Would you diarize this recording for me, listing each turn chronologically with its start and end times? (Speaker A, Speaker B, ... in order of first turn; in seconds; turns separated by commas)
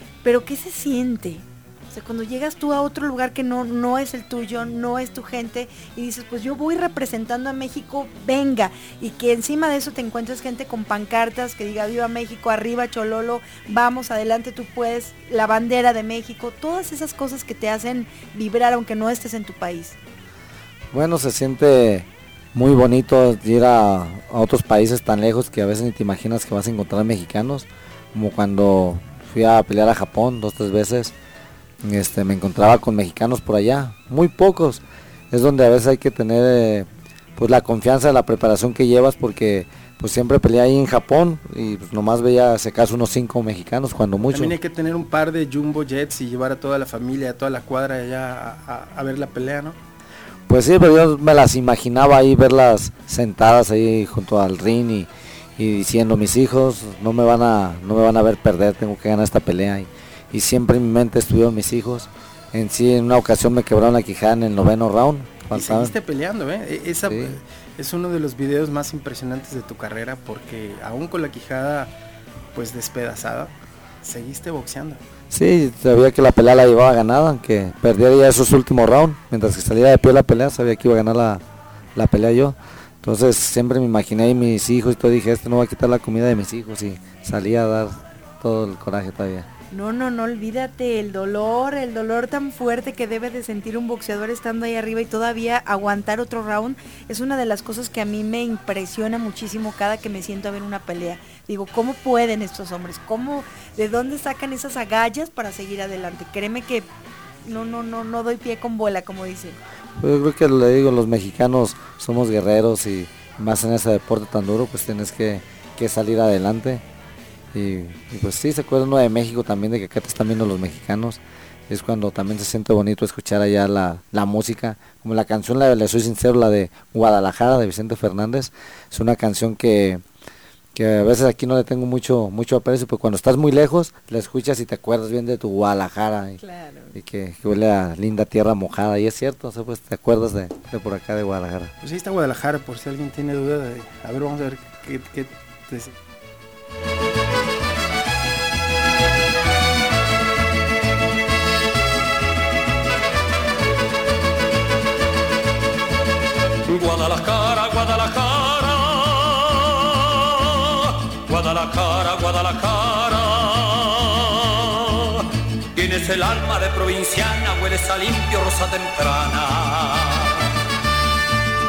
Speaker A: 0.2-19.9, Speaker B: 20.9-31.1, Speaker B: 31.8-44.6, Speaker C: 44.3-49.8, Speaker B: 50.5-65.9, Speaker C: 65.5-71.9, Speaker B: 67.0-67.4, Speaker C: 72.5-73.5, Speaker C: 74.0-75.0, Speaker B: 75.3-81.4, Speaker B: 81.9-89.5, Speaker A: 89.7-106.9, Speaker A: 107.4-109.6, Speaker B: 110.0-116.8, Speaker B: 117.5-130.0, Speaker B: 130.7-136.4, Speaker A: 136.4-136.9, Speaker B: 136.9-141.7, Speaker C: 141.8-145.9, Speaker D: 156.7-165.2, Speaker D: 165.7-170.3